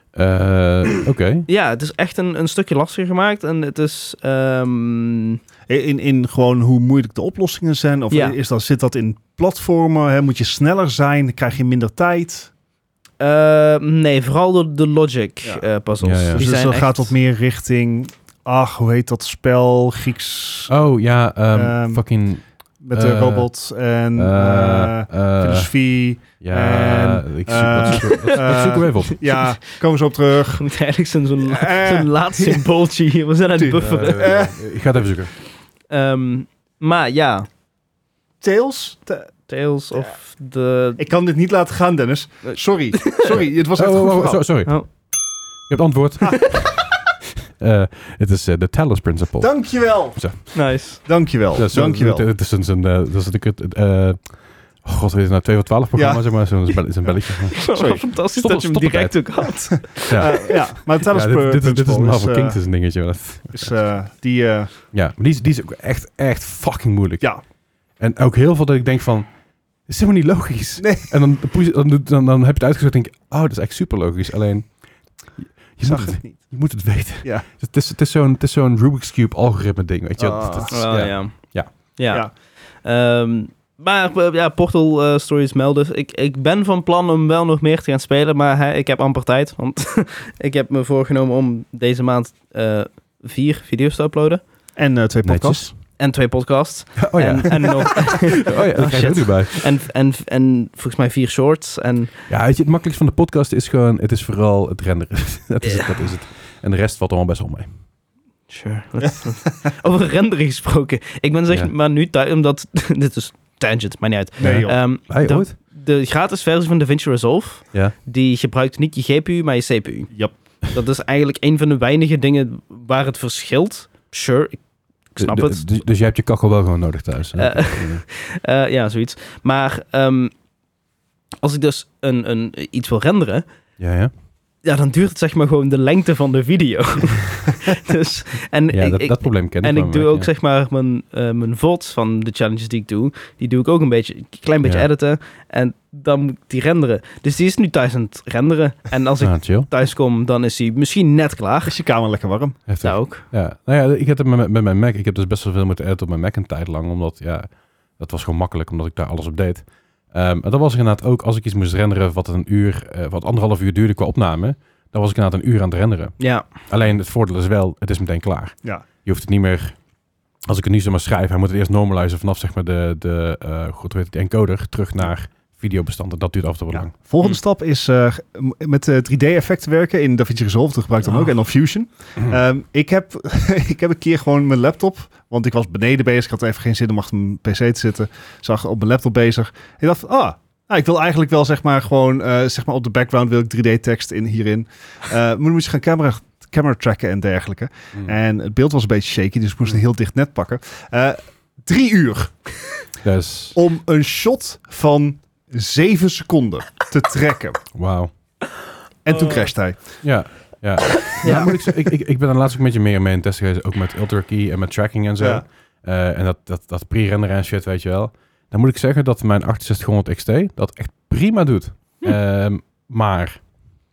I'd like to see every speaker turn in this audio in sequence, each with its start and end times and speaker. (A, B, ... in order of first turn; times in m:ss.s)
0:00.1-0:01.5 A
0:01.5-0:05.4 B
0:05.7-0:12.5 C
0:08.1-0:08.4 B
0:13.2-0:17.1 B
0:16.0-0:16.5 A
0:16.3-0:20.7 C
0:20.7-0:23.5 A
0:21.5-0:22.0 C
0:22.8-0:30.6 C
0:24.1-0:25.7 A
0:26.4-0:29.3 A
0:27.9-0:28.4 B
0:30.5-0:34.5 B
0:31.4-0:32.7 C
0:33.5-0:34.6 C
0:33.8-0:35.3 A
0:35.9-0:37.5 B
0:38.4-0:39.3 C
0:39.5-0:41.0 B
0:41.0-0:44.4 C
0:42.4-0:43.4 B
0:43.8-0:45.2 A
0:45.7-0:46.9 A
0:47.6-0:51.0 A
0:49.4-0:52.2 C
0:50.5-0:51.0 B
0:51.5-1:03.7 A
0:55.9-0:56.6 C
0:57.6-1:00.6 B
0:57.7-0:58.1 C
1:00.0-1:02.6 C
1:03.5-1:04.7 C
1:04.9-1:07.3 A
1:08.0-1:09.3 A
1:09.8-1:14.8 A
1:10.8-1:11.1 C
1:15.4-1:21.7 A
1:15.8-1:16.5 C
1:20.2-1:34.4 B
1:20.5-1:21.2 C
1:34.8-1:35.7 C
1:35.2-1:35.7 A
1:36.0-1:42.1 B
1:37.0-1:39.7 A
1:42.3-1:47.7 A
1:45.6-1:45.9 B
1:48.5-2:00.1 B
1:54.4-1:54.8 C
1:54.4-1:55.5 A
2:00.7-2:04.6 B
2:05.1-2:05.7 B
2:05.2-2:08.0 A
2:07.4-2:10.3 B
2:11.4-2:13.4 B
2:13.8-2:14.1 A
2:14.6-2:31.7 B
2:18.7-2:20.3 A
2:29.2-2:29.7 A
2:31.6-2:32.6 C
2:32.7-2:49.8 A
2:32.8-2:33.3 B
2:46.2-2:46.5 B
2:50.5-2:56.9 A
2:56.7-3:22.5 C
3:23.0-3:23.6 A
3:23.5-3:27.6 C
3:27.7-3:28.1 A
3:29.0-3:29.8 C
3:29.1-3:29.5 B
3:30.0-3:43.5 A
3:31.2-3:31.5 B
3:31.2-3:31.6 C
3:35.2-3:35.4 C